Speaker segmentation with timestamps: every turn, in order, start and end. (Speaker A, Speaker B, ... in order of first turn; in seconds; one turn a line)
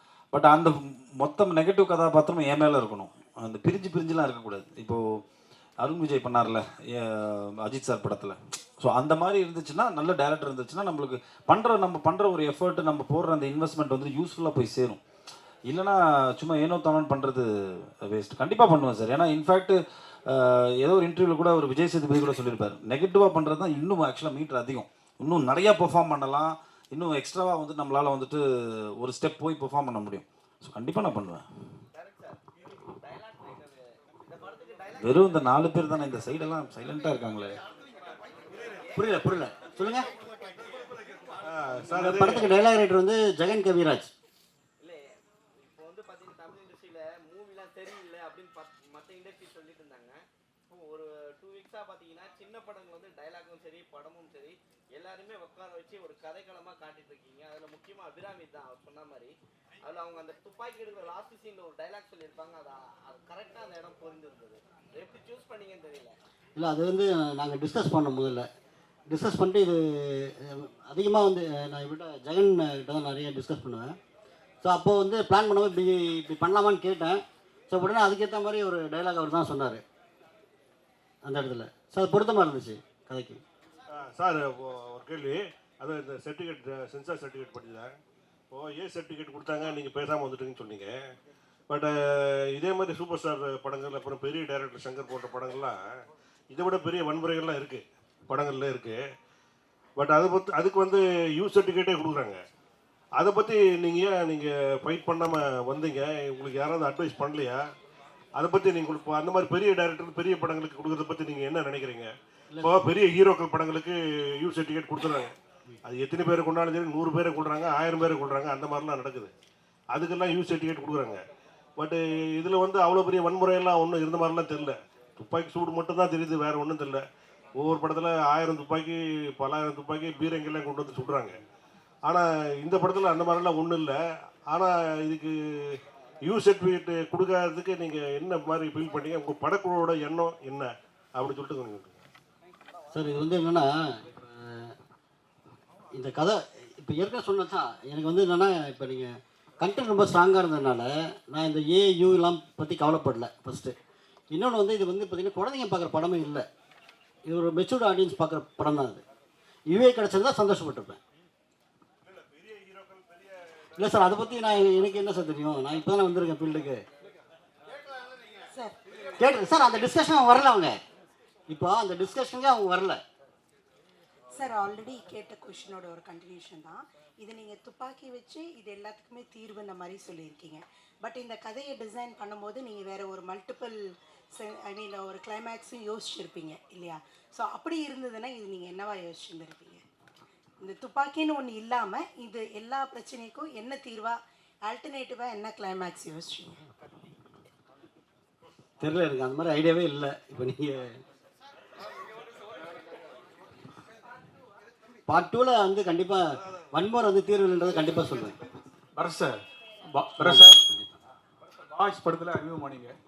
Speaker A: 0.3-5.2
Speaker A: 5.8-15.0
Speaker A: 15.7-17.5
Speaker A: 18.0-28.4
Speaker A: 29.0-31.4
Speaker B: 32.0-32.4
Speaker B: 33.0-35.5
Speaker A: 35.0-37.6
Speaker C: 39.0-40.1
Speaker D: 41.5-42.5
Speaker C: 41.9-44.1
Speaker B: 45.6-66.2
Speaker C: 66.6-68.5
Speaker C: 69.1-74.0
Speaker C: 74.6-77.2
Speaker C: 77.7-79.8
Speaker C: 81.3-83.4
Speaker D: 84.0-87.9
Speaker D: 88.5-90.9
Speaker D: 92.5-95.8
Speaker D: 96.5-99.0
Speaker D: 100.0-102.4
Speaker D: 103.2-107.6
Speaker D: 108.4-112.1
Speaker D: 112.6-115.3
Speaker D: 115.9-119.3
Speaker D: 119.9-121.2
Speaker D: 121.8-127.0
Speaker D: 127.6-131.4
Speaker D: 132.1-133.9
Speaker D: 134.5-135.3
Speaker D: 136.3-142.0
Speaker C: 142.9-144.7
Speaker C: 145.9-153.7
Speaker C: 154.3-156.4
Speaker C: 157.3-159.0
Speaker C: 159.7-161.0
Speaker D: 162.3-163.2
Speaker C: 163.8-166.8
Speaker C: 169.2-170.8
Speaker C: 171.5-173.0
Speaker E: 174.3-183.8
Speaker E: 184.4-189.8
Speaker E: 190.6-196.6
Speaker C: 198.8-200.9
Speaker C: 205.1-208.4
Speaker F: 209.0-210.6
Speaker C: 210.2-210.9
Speaker F: 211.7-212.9